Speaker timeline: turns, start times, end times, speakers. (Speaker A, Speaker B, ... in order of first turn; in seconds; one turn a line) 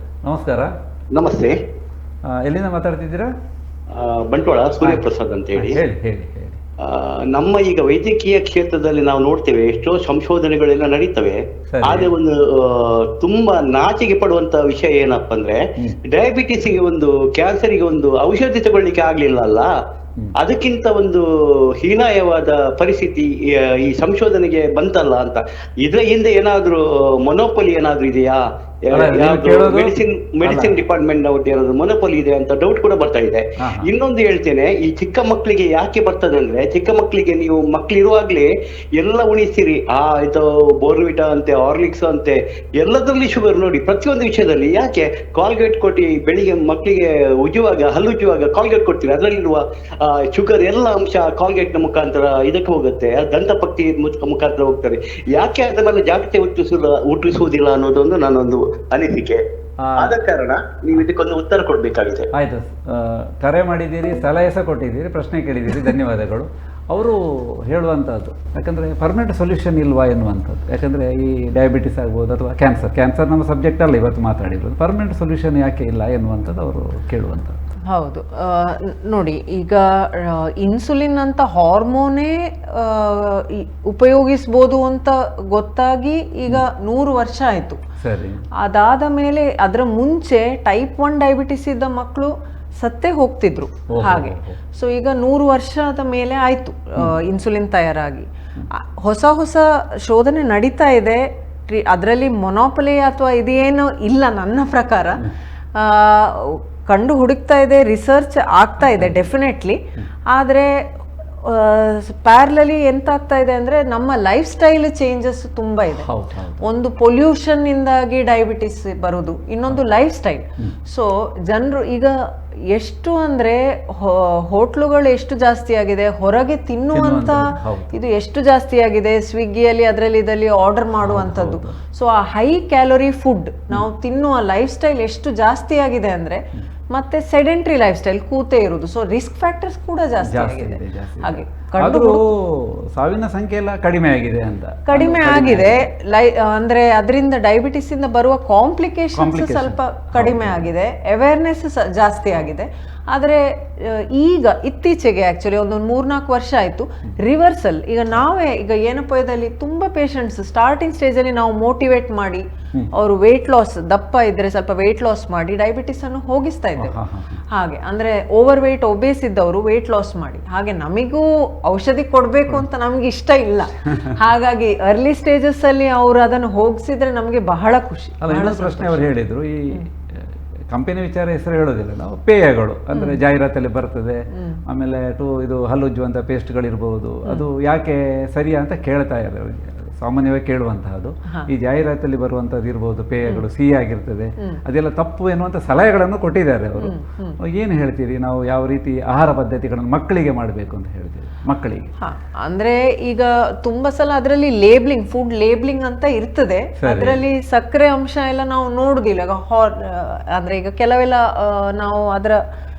Speaker A: 0.2-0.7
Speaker B: 1.1-1.6
Speaker A: 2.4-3.3
Speaker B: 3.9-5.8
Speaker A: 5.5-6.6
Speaker B: 6.8-15.6
Speaker A: 11.7-12.1
Speaker B: 16.1-19.7
Speaker B: 20.4-21.2
Speaker B: 21.8-59.4
Speaker A: 28.9-30.8
Speaker A: 33.6-33.9
Speaker A: 59.8-60.2
Speaker B: 60.0-62.3
Speaker A: 62.3-77.6
Speaker C: 77.9-87.8
Speaker A: 88.0-88.4
Speaker C: 88.6-109.8
Speaker A: 93.9-94.6
Speaker A: 108.9-109.2
Speaker C: 110.3-110.9
Speaker C: 111.4-116.1
Speaker A: 115.9-116.6
Speaker C: 116.6-122.2
Speaker C: 122.7-142.3
Speaker A: 126.9-127.9
Speaker A: 131.0-131.8
Speaker A: 140.2-145.9
Speaker C: 144.9-167.0
Speaker A: 149.1-150.7
Speaker A: 166.8-167.4
Speaker C: 167.5-179.1
Speaker A: 178.2-201.9
Speaker C: 182.9-183.2
Speaker C: 184.3-184.6
Speaker C: 196.8-197.4
Speaker C: 202.0-212.4
Speaker A: 206.8-207.2